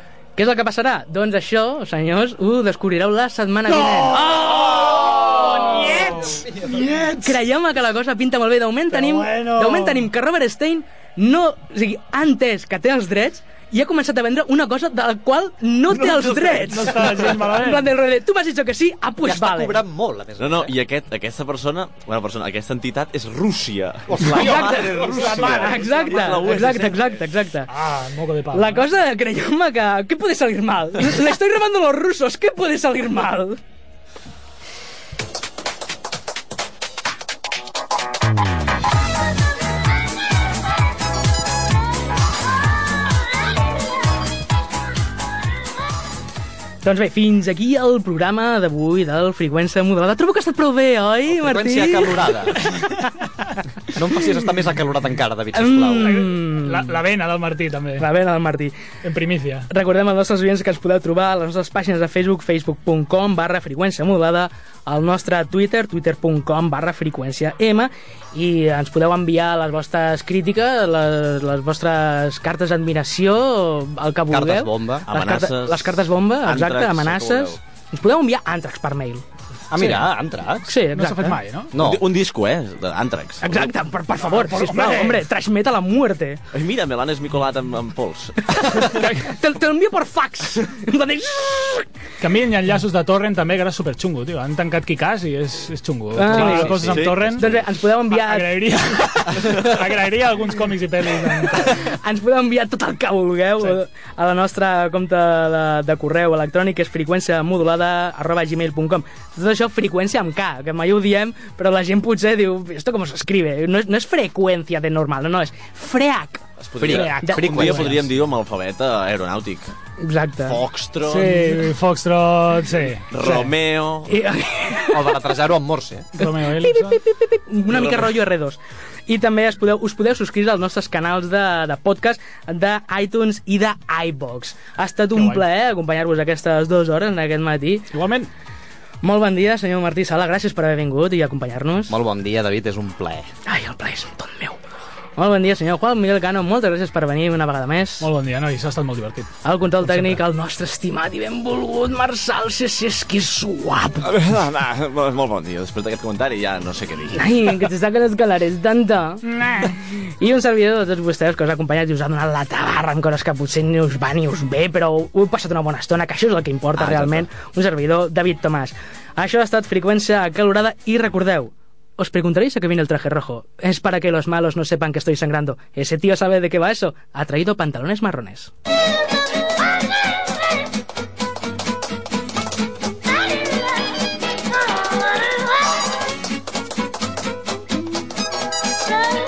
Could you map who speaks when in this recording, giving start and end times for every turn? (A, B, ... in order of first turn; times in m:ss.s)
0:00.4-0:19.8 A
0:04.1-0:07.3 B
0:08.9-0:10.1 B
0:15.9-0:17.9 B
0:19.2-0:20.8 C
0:20.4-0:27.2 D
0:24.1-0:25.8 C
0:24.2-0:27.7 A
0:25.0-0:26.7 B
0:27.7-0:28.8 B
0:28.5-0:33.6 A
0:46.8-0:52.6 A
0:51.3-0:52.6 C
0:53.9-0:56.3 C
0:55.5-0:57.0 A
0:56.0-0:58.1 B
0:58.0-0:58.8 A
0:59.0-0:59.7 B
0:59.7-1:19.2 A
1:14.3-1:15.1 C
1:15.1-1:17.6 D
1:19.7-1:20.8 C
1:20.6-1:21.4 A
1:20.9-1:21.7 B
1:21.7-1:22.0 C
1:21.7-1:23.7 D
1:23.4-1:26.4 A
1:24.2-1:25.2 B
1:26.5-1:28.8 D
1:28.5-1:31.9 A
1:28.9-1:29.2 B
1:32.2-1:41.9 B
1:36.1-1:38.6 A
1:36.2-1:37.6 D
1:41.5-1:58.0 A
1:56.6-1:59.7 D
1:56.8-1:58.0 C
2:00.0-2:00.6 A
2:00.4-2:01.6 D
2:01.0-2:03.1 B
2:03.1-2:04.3 D
2:03.2-2:03.5 A
2:04.1-2:05.2 A
2:04.8-2:06.1 C
2:06.2-2:07.0 B
2:06.2-2:17.9 A
2:15.2-2:15.4 B
2:17.9-2:18.3 B
2:19.0-2:22.0 A
2:21.9-2:23.3 C
2:23.4-2:24.6 A
2:25.2-2:28.1 A
2:28.0-2:30.2 B
2:29.4-2:34.1 A
2:34.0-2:37.7 D
2:37.1-2:58.5 A
2:39.2-2:39.8 B
2:46.8-2:47.2 D